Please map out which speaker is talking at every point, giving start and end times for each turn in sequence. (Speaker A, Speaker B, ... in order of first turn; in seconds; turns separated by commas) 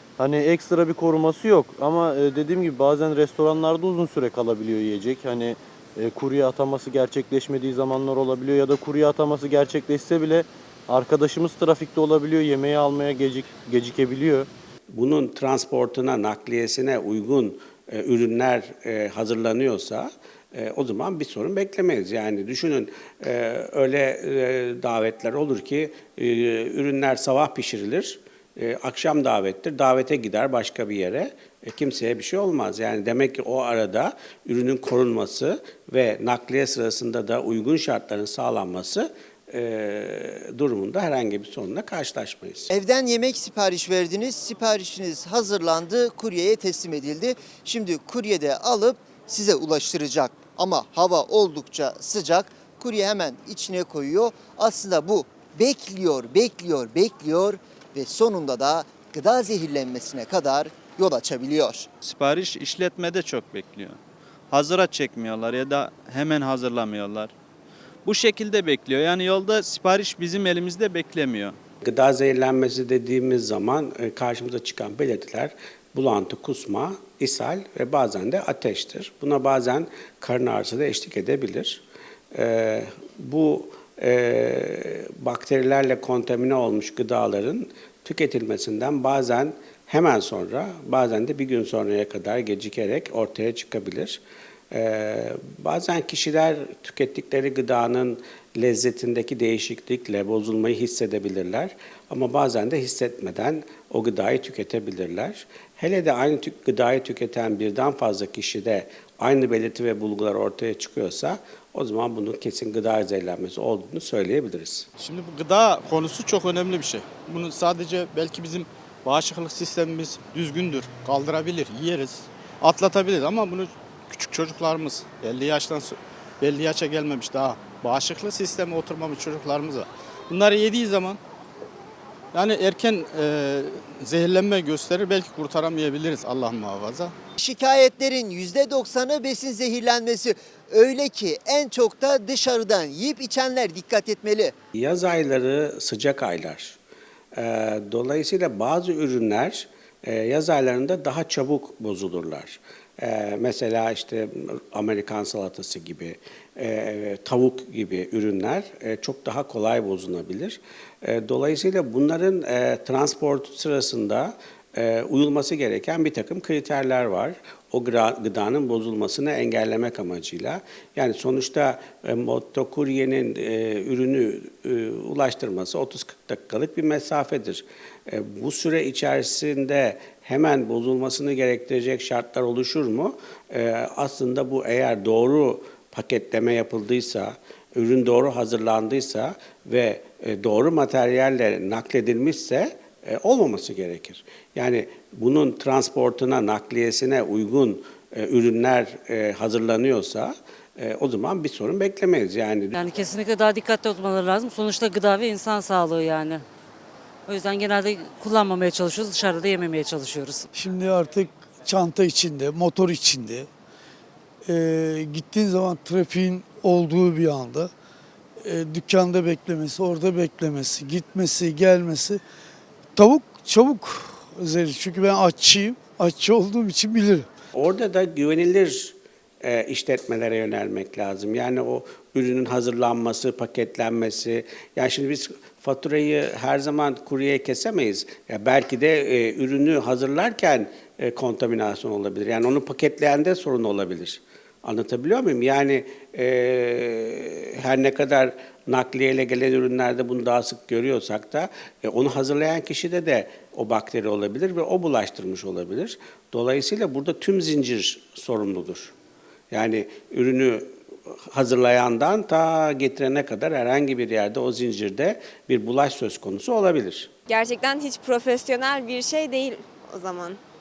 Speaker A: 0.2-14.5, Speaker B: 14.9-42.7, Speaker C: 42.7-61.9, Speaker D: 62.0-63.9, Speaker D: 64.5-67.3, Speaker D: 68.0-71.5, Speaker B: 71.8-81.8, Speaker B: 82.3-94.2, Speaker B: 94.7-114.9, Speaker E: 115.0-131.2, Speaker E: 132.3-137.2, Speaker C: 137.4-144.5, Speaker B: 144.7-146.8, Speaker B: 147.3-202.8, Speaker F: 202.8-206.4, Speaker F: 207.3-210.5, Speaker G: 210.5-213.5, Speaker G: 214.4-217.7, Speaker G: 218.4-222.2, Speaker G: 223.0-227.3, Speaker B: 227.5-258.9, Speaker B: 259.5-260.7, Speaker B: 261.3-267.1, Speaker H: 267.3-270.4